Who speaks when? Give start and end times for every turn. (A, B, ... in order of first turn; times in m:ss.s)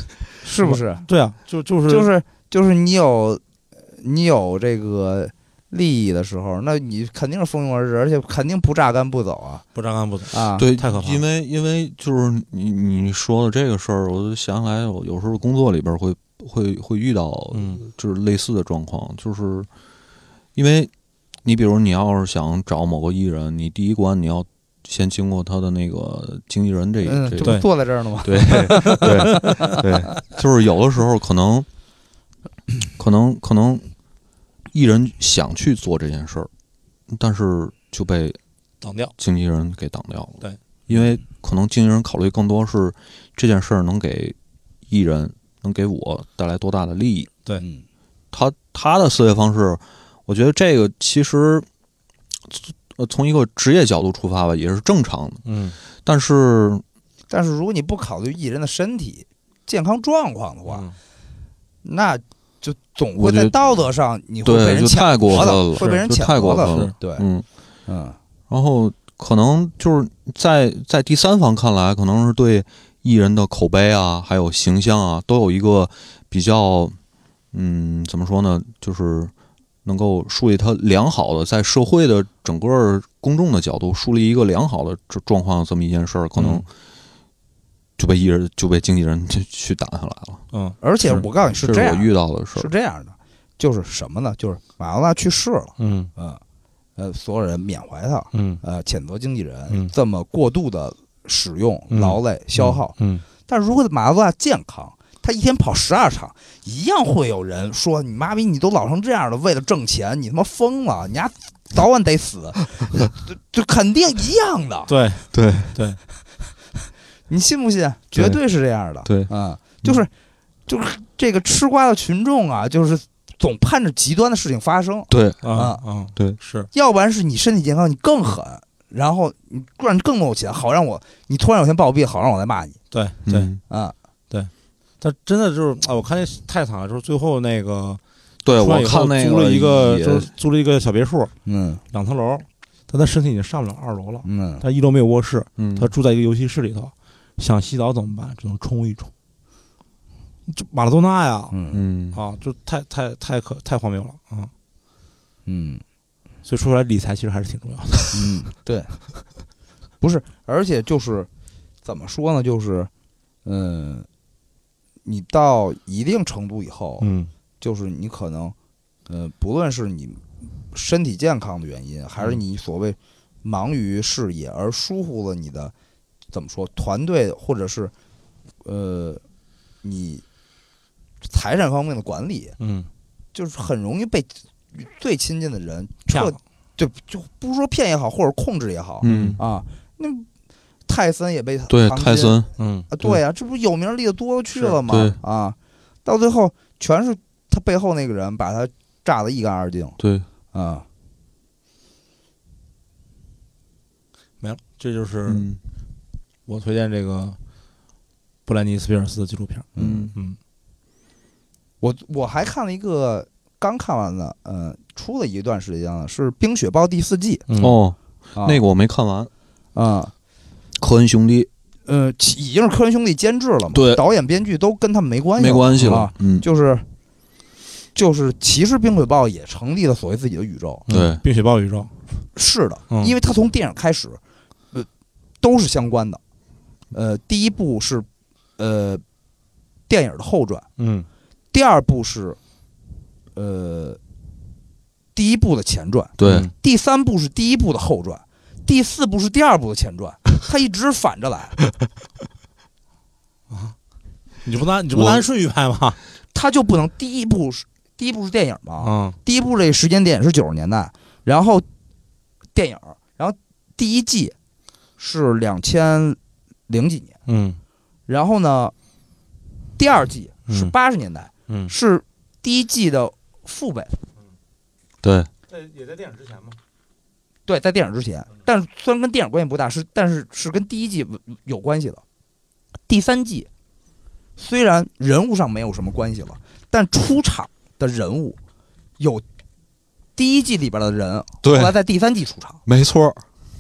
0:00.4-0:01.1 A
0:00.6-0:02.1 B
0:01.9-0:09.7 A
0:09.8-0:11.2 B
0:10.3-0:10.7 A
0:10.6-0:19.7 C
0:17.5-0:17.8 B
0:20.6-0:20.9 C
0:21.4-0:27.6 C
0:27.0-0:29.8 A
0:28.2-0:31.7 C
0:28.5-0:29.5 B
0:33.0-0:33.9 C
0:34.7-0:36.5 C
0:37.1-0:38.4 C
0:38.8-0:39.1 B
0:39.2-0:44.4 C
0:40.4-0:40.9 B
0:44.9-0:47.3 C
0:47.6-0:47.8 A
0:48.3-0:51.7 C
0:52.5-0:55.4 C
0:55.4-0:55.8 B
0:56.0-0:56.8 C
0:57.3-1:00.9 A
1:00.7-1:01.0 B
1:01.8-1:07.2 A
1:03.2-1:03.6 C
1:04.4-1:07.5 C
1:05.3-1:06.9 B
1:07.9-1:08.2 A
1:08.5-1:17.0 C
1:17.5-1:19.3 C
1:19.8-1:26.7 C
1:26.4-1:26.7 B
1:28.0-1:30.4 C
1:30.5-1:30.8 B
1:30.8-1:36.4 A
1:31.1-1:32.7 C
1:35.8-1:36.1 B
1:37.0-1:43.0 A
1:38.3-1:38.6 B
1:41.9-1:43.2 B
1:43.5-1:54.9 A
1:54.9-1:56.0 B
1:55.3-1:55.8 C
1:57.3-2:00.1 A
1:59.0-1:59.3 C
2:00.7-2:05.8 A
2:05.1-2:05.5 C
2:05.4-2:06.7 B
2:06.7-2:12.8 A
2:12.9-2:13.5 B
2:13.3-2:13.6 C
2:13.7-2:14.0 A
2:14.3-2:18.0 B
2:18.4-2:20.3 C
2:18.6-2:21.3 B
2:21.4-2:21.8 A
2:21.9-2:29.1 B
2:24.2-2:24.6 A
2:25.6-2:25.9 C
2:30.5-2:31.6 B
2:31.5-2:31.8 A
2:31.7-2:32.2 C
2:32.1-2:34.5 B
2:35.5-2:35.8 A
2:36.4-2:38.4 B
2:38.1-2:39.0 A
2:40.0-2:41.3 A
2:41.8-2:42.9 A
2:43.4-2:44.1 A
2:45.0-2:47.1 A
2:47.0-2:47.3 B
2:47.6-2:48.6 A
2:49.1-2:55.7 A
2:56.3-2:57.9 A
2:58.6-2:59.2 A
2:59.8-3:00.2 A
3:01.2-3:02.6 A
3:02.6-3:02.9 B
3:03.3-3:10.3 A
3:06.1-3:06.4 B
3:09.0-3:09.4 B
3:09.0-3:09.4 C
3:10.9-3:20.0 A
3:11.7-3:12.5 C
3:12.6-3:12.9 B
3:14.9-3:15.2 C
3:20.0-3:20.3 C
3:20.5-3:20.9 A
3:24.4-3:25.4 B
3:25.3-3:25.6 C
3:26.5-3:27.4 B
3:28.5-3:30.4 B
3:29.8-3:30.1 A
3:29.8-3:30.1 C
3:31.8-3:37.5 A
3:37.5-3:37.8 B
3:37.6-3:39.3 C
3:39.8-3:40.1 A
3:40.8-3:41.5 C
3:41.9-3:46.9 A
3:43.7-3:44.0 C
3:45.4-3:46.4 C
3:48.0-3:50.9 A
3:50.9-3:51.9 B
3:50.9-3:51.2 C
3:52.4-3:54.2 A
3:52.9-3:53.2 B
3:55.4-3:56.2 A
3:56.9-3:58.1 A
3:58.6-3:59.0 A
3:59.9-4:00.7 A
4:00.8-4:01.1 B
4:01.5-4:02.4 A
4:03.4-4:04.0 A
4:05.2-4:11.6 A
4:06.2-4:06.5 C
4:06.2-4:06.5 B
4:13.5-4:13.8 B
4:14.4-4:16.0 B
4:14.9-4:15.2 C
4:16.3-4:21.7 A
4:18.8-4:19.2 B
4:22.6-4:24.4 A
4:25.0-4:27.2 A
4:27.3-4:27.6 B
4:28.1-4:28.7 A
4:29.8-4:34.0 A
4:31.5-4:31.7 B
4:35.0-4:35.3 C
4:35.5-4:36.6 B
4:37.5-4:42.0 A
4:42.9-4:43.5 A
4:44.4-4:48.4 A
4:49.0-4:49.2 A
4:50.2-4:52.6 A
4:51.4-4:51.8 C
4:52.7-4:53.2 C